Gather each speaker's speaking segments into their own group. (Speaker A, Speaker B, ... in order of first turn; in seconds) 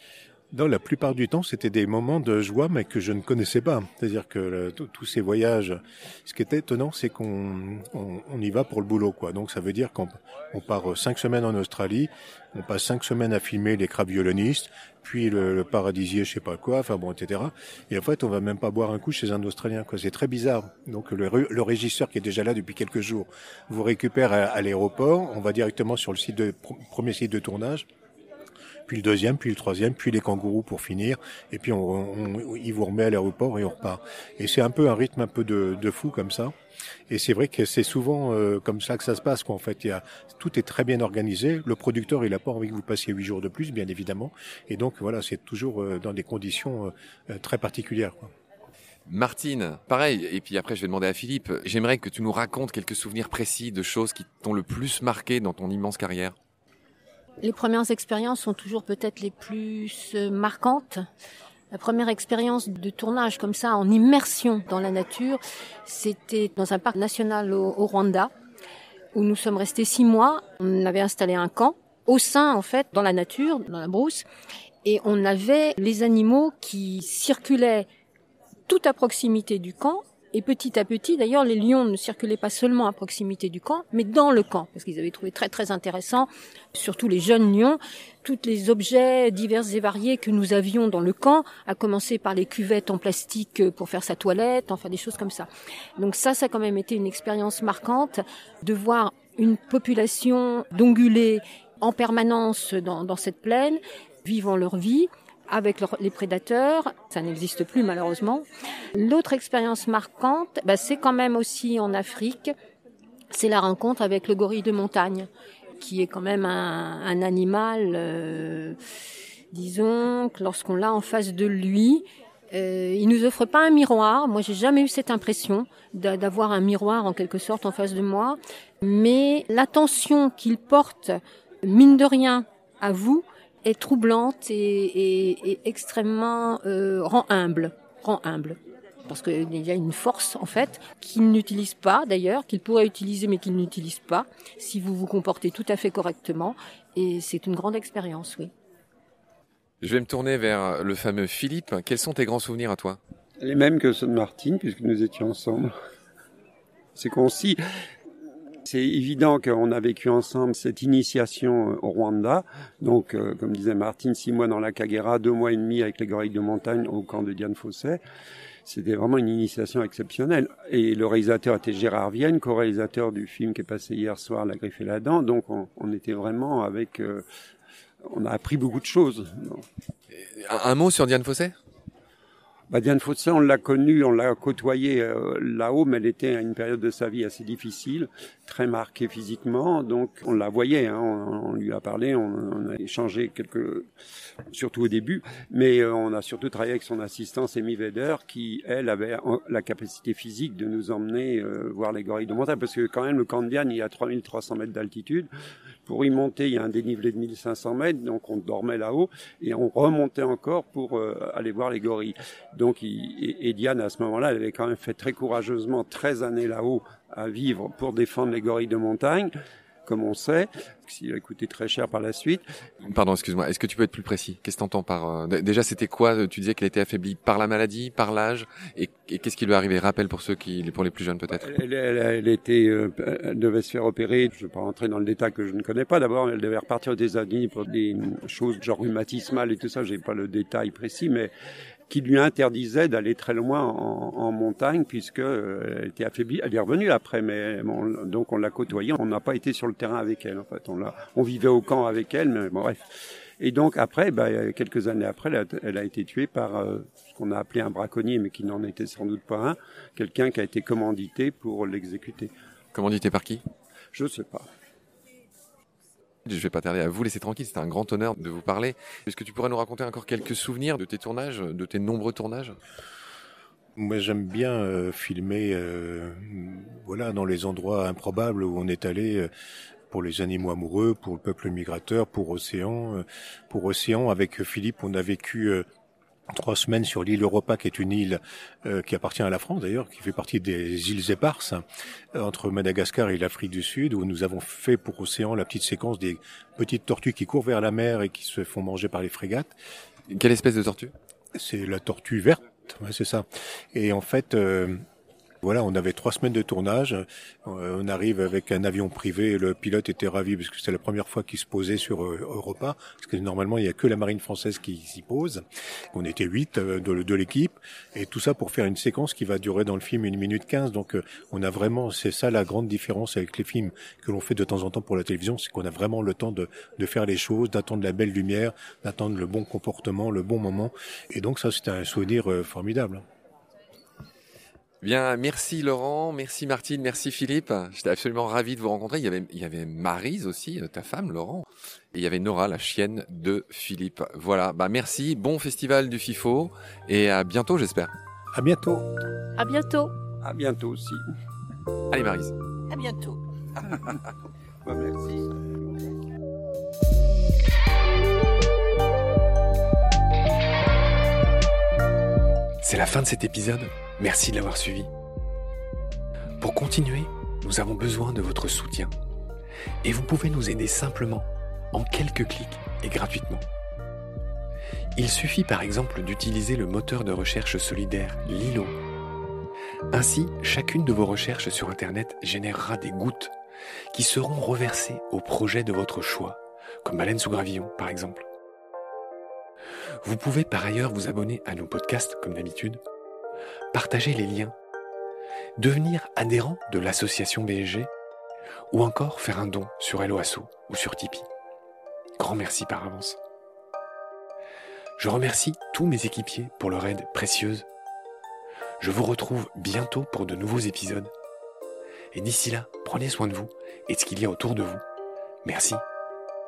Speaker A: 0.5-27.9, 28.9-36.5, 37.1-48.3, 273.8-279.3, 279.9-285.6, 286.3-291.6, 292.1-299.5, 301.4-304.8, 305.4-333.0, 348.3-348.9
Speaker B: 49.1-56.4, 149.8-153.0, 180.1-181.6, 222.8-231.5, 262.7-263.4, 266.3-272.6, 300.1-300.9, 334.8-347.9, 351.9-352.4
Speaker C: 57.4-61.0, 61.7-68.3, 69.1-74.2, 74.8-77.9, 78.7-112.5, 113.3-115.3, 115.8-118.8, 119.5-148.5, 349.4-349.9
Speaker D: 153.4-155.7, 157.0-157.6, 158.7-168.0, 168.7-177.2, 178.0-179.7, 182.7-193.9, 194.5-205.3, 205.9-219.3, 219.9-222.4, 231.3-241.3, 241.9-252.8, 253.4-262.3, 263.9-264.5, 350.2-351.1, 354.6-355.2
Speaker E: 362.6-364.9, 366.4-368.9, 369.8-373.4, 375.0-378.8, 379.9-383.3, 383.9-388.3, 390.0-392.8, 393.7-394.6, 395.6-397.9, 398.7-401.3, 402.2-403.2, 405.0-407.7, 408.8-411.1, 412.1-414.8, 415.4-415.8